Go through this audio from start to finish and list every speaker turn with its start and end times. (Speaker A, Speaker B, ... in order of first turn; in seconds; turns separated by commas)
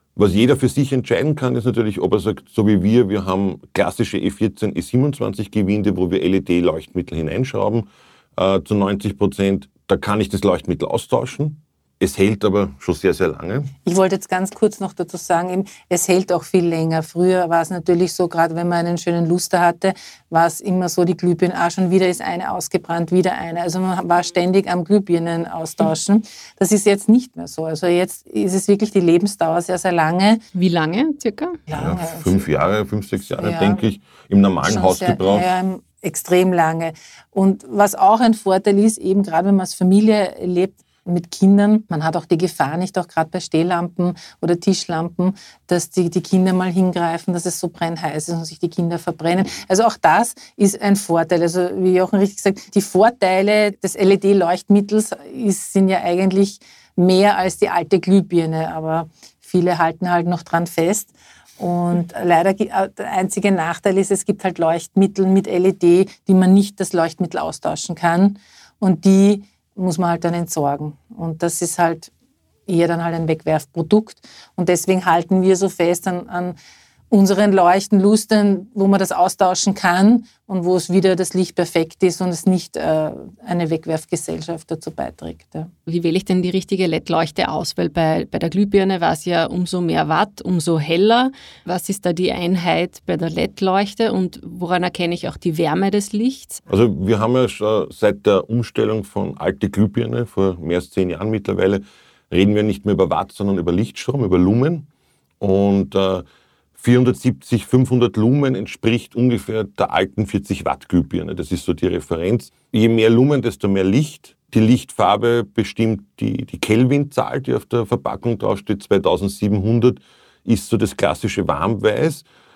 Speaker A: 0.2-13.7, Speaker B: 13.8-30.4, Speaker C: 30.6-31.6, Speaker B: 31.7-32.4, Speaker A: 31.7-35.5, Speaker B: 33.4-33.8, Speaker B: 34.6-72.1, Speaker B: 72.7-76.6, Speaker B: 77.1-85.7, Speaker C: 85.9-96.6, Speaker A: 96.7-104.9, Speaker A: 105.4-106.2, Speaker A: 106.8-122.2